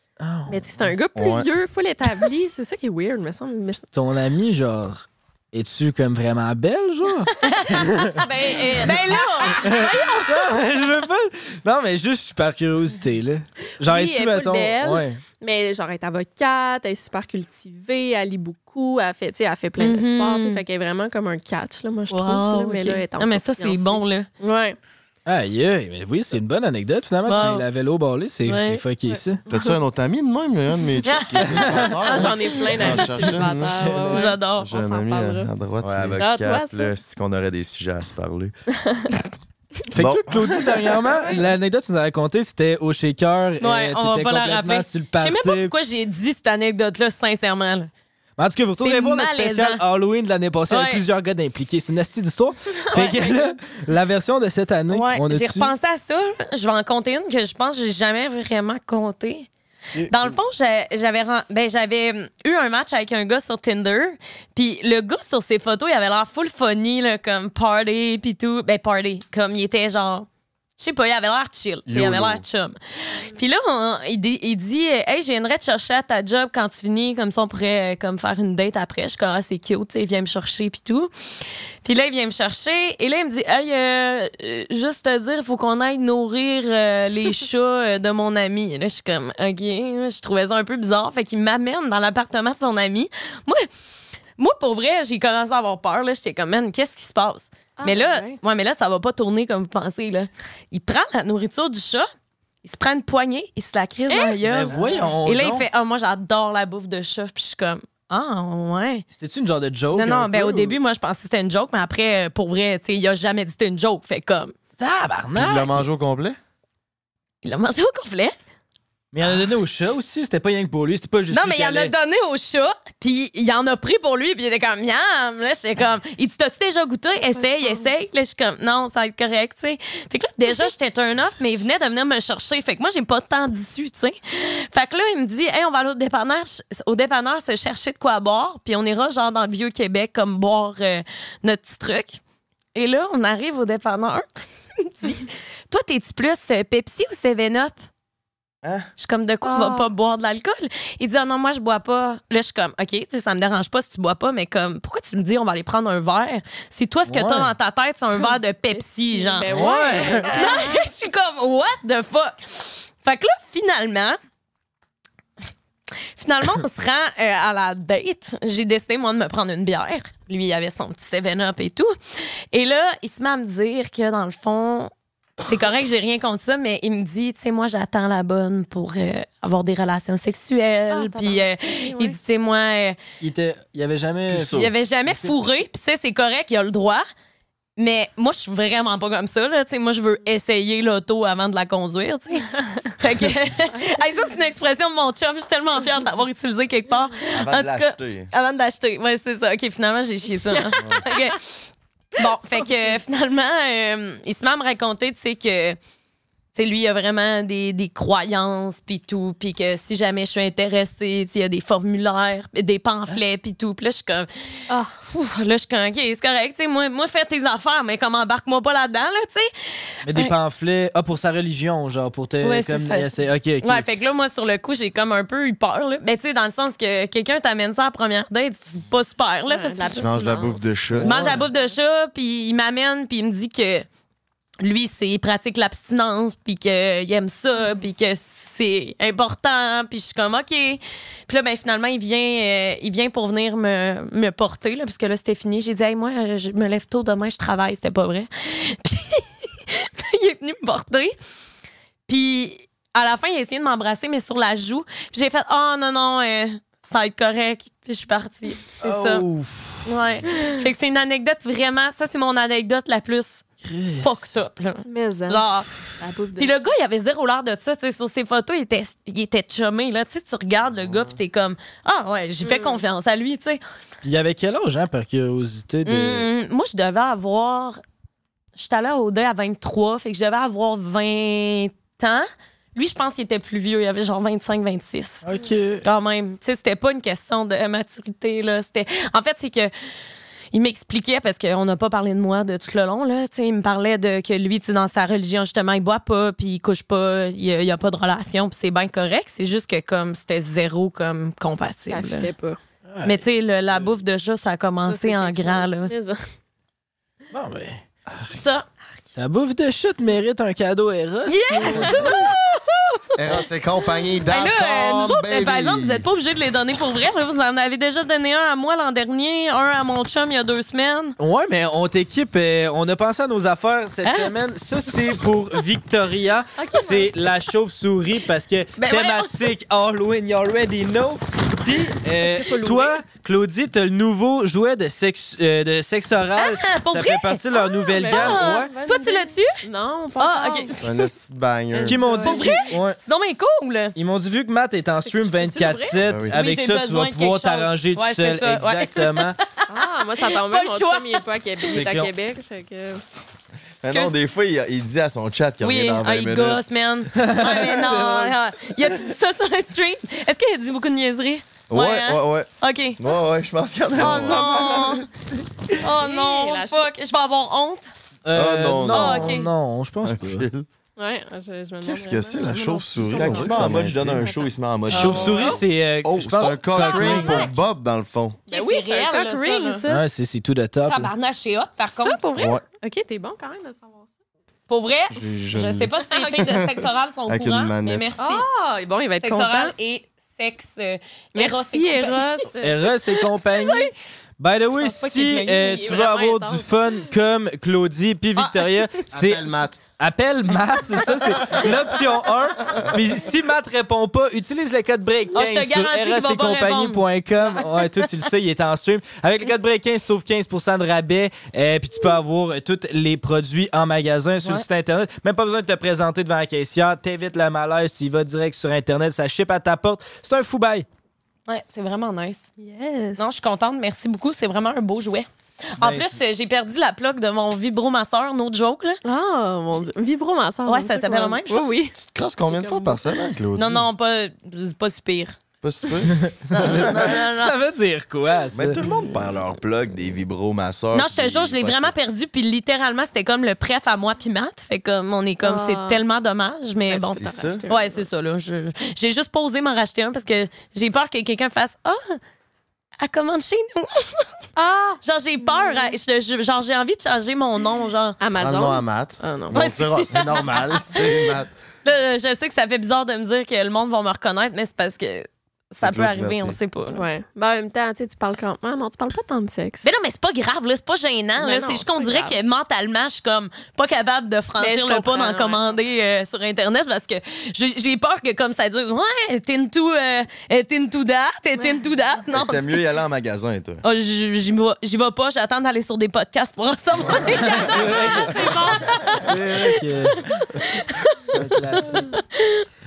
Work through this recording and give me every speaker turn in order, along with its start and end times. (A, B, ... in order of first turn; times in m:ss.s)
0:00.2-0:00.9 A
0:00.5-0:03.8 B
0:01.2-0:01.5 C
0:03.9-0:08.2 A
0:07.4-0:07.8 D
0:08.1-0:10.6 B
0:08.8-0:09.9 D
0:09.6-0:15.2 A
0:13.8-0:24.8 B
0:19.8-0:20.6 D
0:22.1-0:24.3 D
0:25.3-0:29.4 A
0:27.3-0:27.7 D
0:28.5-0:28.8 D
0:29.1-0:29.8 B
0:29.5-0:36.2 C
0:31.0-0:33.0 D
0:31.5-0:31.9 A
0:32.0-0:35.5 B
0:34.1-0:34.8 D
0:35.8-0:38.5 E
0:36.2-0:36.9 B
0:39.9-0:45.7 A
0:40.0-0:40.7 E
0:41.2-0:41.4 B
0:43.6-0:47.9 D
0:48.4-0:55.7 A
0:48.8-0:49.8 D
0:50.7-0:51.0 D
0:52.9-0:53.4 B
0:52.9-0:53.2 D
0:54.9-0:59.5 D
1:00.1-1:10.3 D
1:10.8-1:21.1 D
1:11.9-1:12.4 C
1:21.8-1:33.7 D
1:34.4-1:42.1 D
1:37.8-1:38.4 B
1:42.6-1:49.0 D
1:44.1-1:45.1 B
1:44.4-1:45.7 A
1:49.2-1:50.8 A
1:49.9-1:54.5 D
1:54.8-1:55.8 A
1:55.3-1:56.4 C
1:57.4-1:58.4 D
1:59.1-2:01.9 A
2:01.3-2:22.2 D
2:07.2-2:07.9 B
2:22.8-2:24.3 D
2:24.8-2:27.8 D
2:29.0-2:39.7 D
2:29.4-2:29.9 B
2:37.1-2:37.5 A
2:38.0-2:40.8 B
2:39.5-2:40.5 A
2:40.2-2:44.2 D
2:46.2-2:51.9 D
2:52.5-3:03.0 D
3:00.9-3:02.2 B
3:03.2-3:05.4 A
3:04.3-3:04.7 E
3:04.5-3:07.0 D
3:07.8-3:21.5 D
3:17.3-3:18.3 E
3:20.5-3:21.4 B
3:22.2-3:25.8 D
3:26.6-3:34.3 D
3:34.7-3:35.0 B
3:35.0-3:39.5 D
3:40.0-3:43.9 A
3:42.4-3:43.1 D
3:43.6-3:50.2 D
3:49.5-3:50.6 B
3:50.0-3:51.4 C
3:51.0-3:51.3 E
3:51.0-3:53.9 D
3:54.6-4:11.2 D
4:12.1-4:19.2 D
4:18.8-4:19.9 A
4:19.8-4:23.4 D
4:23.6-4:24.3 A
4:24.0-4:25.7 D
4:24.8-4:26.6 B
4:26.4-4:33.6 D
4:32.4-4:32.8 B
4:34.0-4:36.3 A
4:35.8-4:37.8 D
4:38.6-4:45.2 D
4:45.2-4:45.8 A
4:45.8-4:49.7 D
4:50.5-5:02.3 D
5:01.9-5:02.6 B
5:02.9-5:03.2 A
5:03.0-5:05.9 D
5:04.8-5:06.2 B
5:07.3-5:07.8 A
5:08.3-5:08.7 D
5:09.2-5:12.3 A
5:11.3-5:13.1 D
5:11.8-5:12.2 B
5:13.2-5:16.1 C
5:14.3-5:21.2 D
5:21.2-5:38.7 A
5:24.0-5:24.3 D
5:26.6-5:27.2 B
5:28.8-5:29.4 D
5:32.2-5:33.0 B
5:36.4-5:39.6 D
5:37.8-5:40.9 B
5:40.2-5:41.1 D
5:40.8-5:42.0 C
5:41.7-5:43.0 A
5:41.8-5:42.6 B
5:42.2-5:44.0 D
5:44.0-5:49.4 A
5:45.0-5:46.0 B
5:46.0-5:46.4 C
5:46.3-5:51.2 D
5:49.7-5:53.0 B
5:51.7-5:52.1 A
5:53.8-5:56.6 E
5:55.6-6:03.1 D
5:57.2-5:58.4 A
6:01.7-6:04.9 E
6:04.0-6:05.1 D
6:04.0-6:05.0 B
6:05.8-6:06.9 B
6:05.8-6:07.9 D
6:08.2-6:10.5 A
6:08.3-6:09.4 E
6:08.9-6:09.5 D
6:10.1-6:10.6 E
6:11.0-6:15.6 B
6:11.8-6:14.3 C
6:13.1-6:15.6 E
6:14.9-6:17.5 A
6:16.0-6:18.4 C
6:16.8-6:17.5 D
6:18.5-6:20.0 B
6:18.5-6:19.8 D
6:19.9-6:21.1 A
6:20.8-6:22.2 D
6:21.8-6:24.1 B
6:22.4-6:22.6 C
6:24.7-6:28.5 D
6:25.1-6:26.6 C
6:26.0-6:26.6 B
6:27.3-6:28.1 C
6:28.2-6:29.7 B
6:29.2-6:32.5 D
6:31.4-6:33.9 B
6:32.6-7:00.9 A
6:34.7-6:36.7 B
6:38.4-6:38.7 D
6:39.1-6:39.8 C
6:45.4-6:47.0 D
7:01.5-7:02.5 D
7:02.6-7:03.3 B
7:03.2-7:09.0 D
7:05.8-7:06.2 A
7:09.0-7:12.0 B
7:10.7-7:11.6 D
7:12.0-7:13.9 C
7:12.5-7:13.1 B
7:13.6-7:15.4 D
7:15.6-7:16.2 C
7:16.1-7:18.8 A
7:16.5-7:17.6 D
7:18.5-7:21.9 E
7:20.9-7:32.2 D
7:25.4-7:26.0 B
7:26.9-7:28.0 B
7:27.2-7:27.6 E
7:33.0-7:34.3 D
7:34.6-7:36.0 B
7:35.0-7:38.2 D
7:38.2-7:39.9 B
7:38.4-7:41.5 C
7:39.5-7:41.0 D
7:41.8-7:47.0 D
7:45.8-7:46.6 C
7:46.9-7:49.9 B
7:49.8-8:02.8 D
7:51.4-7:52.4 B
7:54.6-7:55.8 B
8:02.3-8:03.8 E
8:03.8-8:09.3 D
8:07.4-8:08.4 A
8:07.6-8:09.1 B
8:09.0-8:10.6 A
8:10.9-8:11.3 D
8:11.3-8:12.2 A
8:12.1-8:12.6 D